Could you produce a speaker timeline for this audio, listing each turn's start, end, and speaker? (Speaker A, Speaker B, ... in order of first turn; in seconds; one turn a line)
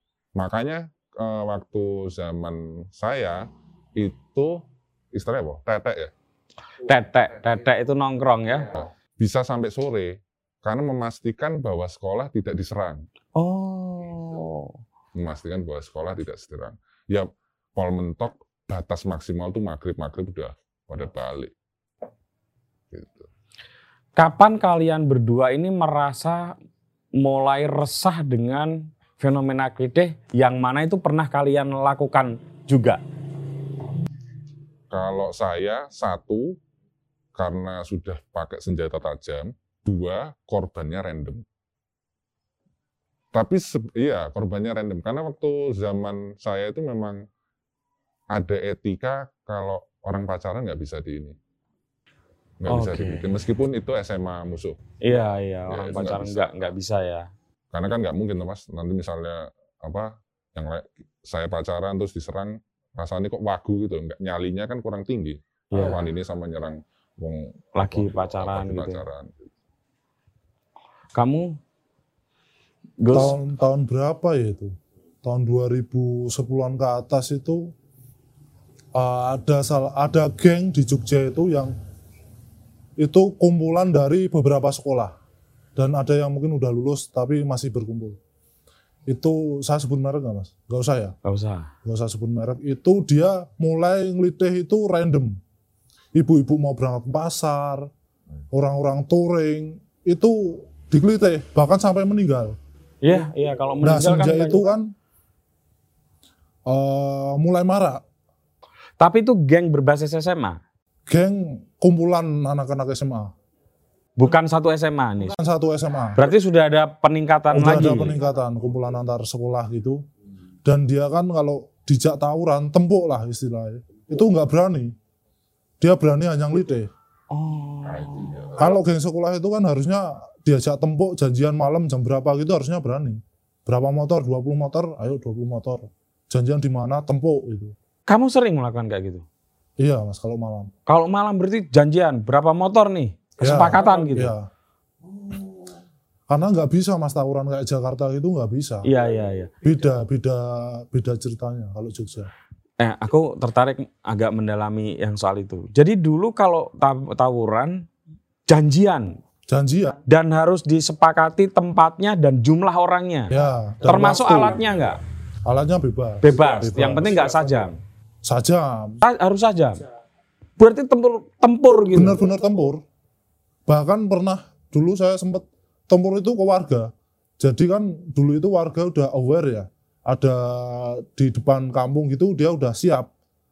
Speaker A: 0.3-6.1
Speaker B: 6.8-8.7
Speaker A: 8.8-13.1
Speaker B: 13.4-14.8
Speaker A: 15.2-21.5
Speaker A: 22.9-23.3
Speaker B: 24.2-26.5
Speaker B: 27.2-33.0
Speaker A: 34.9-36.6
Speaker A: 37.4-41.5
Speaker A: 43.3-47.2
Speaker A: 48.3-51.4
Speaker A: 52.6-54.8
Speaker B: 52.7-53.2
Speaker B: 55.0-57.3
Speaker A: 55.7-56.7
Speaker A: 57.7-69.4
Speaker B: 65.7-66.0
Speaker B: 67.8-69.0
Speaker B: 71.2-71.6
Speaker B: 73.0-73.4
Speaker C: 73.1-74.7
Speaker C: 75.2-77.7
Speaker C: 79.0-81.8
Speaker C: 83.0-85.1
Speaker C: 85.8-88.2
Speaker C: 89.1-91.2
Speaker B: 91.2-91.7
Speaker C: 91.8-95.4
Speaker C: 96.2-97.9
Speaker C: 98.5-102.6
Speaker B: 103.0-104.6
Speaker C: 103.8-104.9
Speaker C: 106.7-108.0
Speaker B: 109.0-110.6
Speaker C: 111.1-113.3
Speaker B: 114.2-115.4
Speaker C: 115.3-116.2
Speaker B: 116.2-118.2
Speaker C: 117.5-120.0
Speaker C: 120.7-124.9
Speaker C: 125.8-126.9
Speaker B: 127.3-128.6
Speaker A: 127.9-128.7
Speaker C: 128.6-137.8
Speaker B: 138.1-139.2
Speaker C: 139.8-140.7
Speaker B: 140.9-144.3
Speaker C: 143.4-144.5
Speaker C: 146.3-148.9
Speaker B: 148.8-149.5
Speaker C: 149.6-152.3
Speaker B: 152.8-157.9
Speaker B: 158.5-159.2
Speaker C: 159.5-160.0
Speaker B: 160.0-163.3
Speaker C: 163.3-164.6
Speaker B: 163.9-165.0
Speaker C: 165.5-167.7
Speaker B: 166.2-167.8
Speaker C: 168.2-169.0
Speaker B: 169.0-169.8
Speaker B: 170.6-172.2
Speaker C: 171.9-172.8
Speaker C: 173.7-183.1